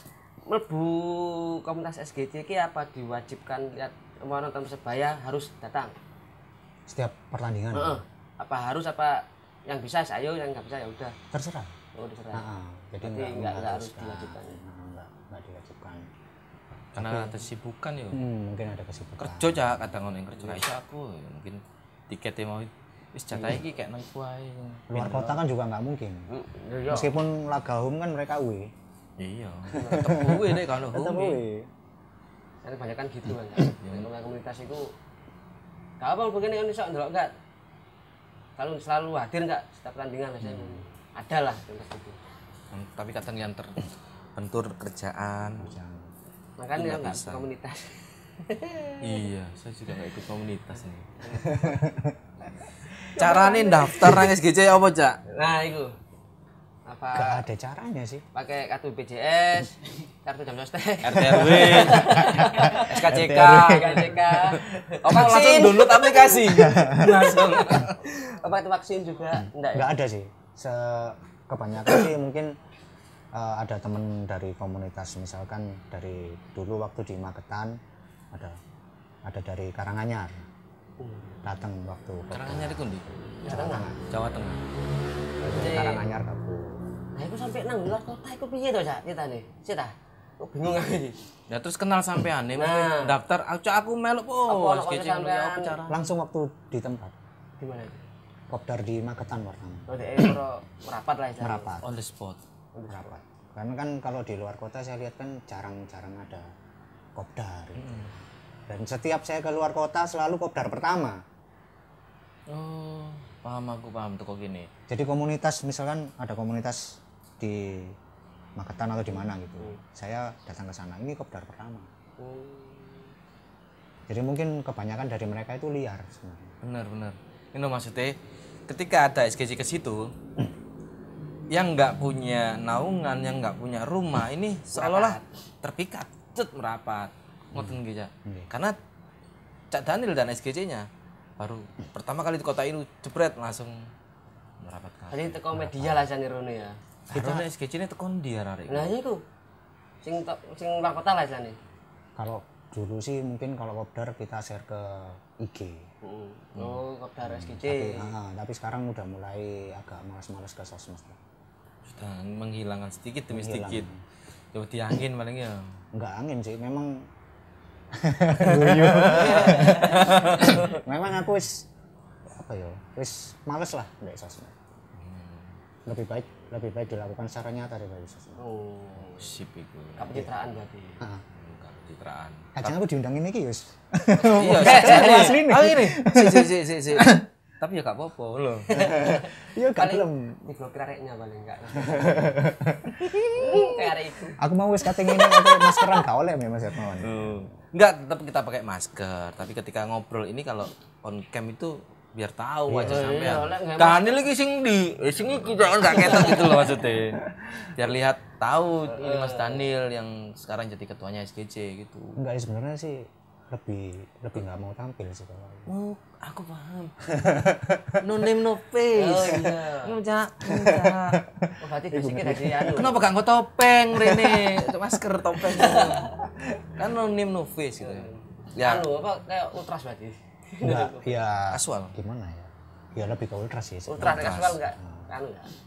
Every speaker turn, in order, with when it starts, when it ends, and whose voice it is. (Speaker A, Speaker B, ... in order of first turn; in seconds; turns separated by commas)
Speaker A: 0.5-5.9, Speaker B: 6.9-8.0, Speaker A: 7.7-11.1, Speaker B: 11.3-11.7, Speaker A: 11.9-12.5, Speaker B: 12.3-16.1, Speaker A: 13.0-14.6, Speaker C: 16.9-18.2, Speaker B: 17.0-17.4, Speaker B: 18.1-19.9, Speaker C: 19.2-25.4, Speaker A: 23.3-23.6, Speaker B: 24.9-26.3, Speaker A: 26.3-27.2, Speaker B: 26.9-28.7, Speaker C: 29.2-31.4, Speaker A: 29.7-30.3, Speaker B: 29.8-31.7, Speaker A: 32.6-34.9, Speaker C: 33.8-34.1, Speaker A: 36.0-37.3, Speaker A: 38.6-42.2, Speaker C: 42.7-45.7, Speaker B: 45.5-46.1, Speaker A: 46.6-49.1, Speaker C: 46.7-47.4, Speaker C: 49.0-51.1, Speaker A: 51.2-51.7, Speaker B: 51.5-52.1, Speaker A: 53.1-54.3, Speaker C: 53.1-55.2, Speaker A: 55.3-55.9, Speaker A: 56.9-57.4, Speaker B: 57.1-58.2, Speaker A: 58.3-69.9, Speaker C: 61.0-68.0, Speaker B: 61.4-64.1, Speaker B: 66.5-67.1, Speaker B: 69.3-72.5, Speaker B: 73.3-77.8, Speaker B: 78.3-78.6, Speaker B: 79.2-80.5, Speaker A: 81.0-81.3, Speaker B: 81.4-84.0, Speaker C: 82.3-83.1, Speaker A: 83.4-83.9, Speaker C: 84.1-84.6, Speaker A: 85.4-86.2, Speaker B: 85.4-86.8, Speaker A: 87.2-91.2, Speaker C: 91.5-96.0, Speaker A: 92.5-93.1, Speaker A: 94.5-95.8, Speaker B: 95.9-97.1, Speaker A: 97.6-98.1, Speaker B: 98.5-99.9, Speaker A: 99.9-101.8, Speaker B: 101.4-101.9, Speaker C: 101.8-102.4, Speaker A: 102.7-103.1, Speaker B: 102.9-106.5, Speaker B: 107.1-108.2, Speaker C: 107.8-108.1, Speaker B: 108.7-111.2, Speaker C: 112.5-114.7, Speaker B: 114.9-118.0, Speaker B: 118.5-121.9, Speaker A: 122.2-123.1, Speaker B: 124.1-126.5, Speaker C: 126.6-128.2, Speaker C: 128.7-130.1, Speaker C: 131.5-138.8, Speaker A: 134.7-135.2, Speaker B: 137.5-138.5, Speaker C: 139.7-140.9, Speaker C: 141.4-143.9, Speaker C: 144.6-145.4, Speaker A: 145.1-146.8, Speaker B: 145.5-146.0, Speaker C: 147.1-148.9, Speaker B: 147.1-147.5, Speaker A: 148.7-149.2, Speaker A: 150.0-151.6, Speaker B: 152.2-155.9, Speaker A: 156.0-158.1, Speaker C: 156.6-156.8, Speaker B: 157.2-161.2, Speaker C: 161.8-163.8, Speaker B: 163.3-164.0, Speaker C: 164.5-165.7, Speaker B: 165.9-167.1, Speaker B: 167.9-171.7, Speaker C: 168.3-170.7, Speaker A: 169.2-170.6, Speaker B: 172.3-174.5, Speaker C: 174.9-175.6, Speaker B: 175.8-178.4, Speaker A: 178.4-179.4, Speaker C: 179.1-180.1, Speaker A: 180.0-181.0, Speaker C: 181.3-182.7, Speaker B: 182.5-187.2, Speaker C: 184.2-188.8, Speaker A: 184.6-185.4, Speaker A: 188.7-192.5, Speaker B: 188.7-190.4, Speaker B: 191.8-193.6, Speaker A: 193.3-194.4, Speaker B: 194.4-197.2, Speaker A: 195.1-195.5, Speaker C: 197.0-212.2, Speaker B: 202.7-203.5, Speaker A: 202.8-204.1, Speaker A: 206.0-206.5, Speaker A: 208.9-209.7, Speaker B: 212.2-215.7, Speaker C: 215.7-217.1, Speaker B: 217.1-218.0, Speaker C: 218.0-221.2, Speaker A: 218.9-220.0, Speaker B: 220.4-222.8, Speaker A: 221.6-223.0, Speaker C: 222.7-228.9, Speaker B: 224.0-224.6, Speaker A: 225.6-226.1, Speaker A: 227.8-231.2, Speaker B: 230.6-235.1, Speaker C: 231.5-231.9, Speaker A: 233.8-235.5, Speaker C: 234.0-234.5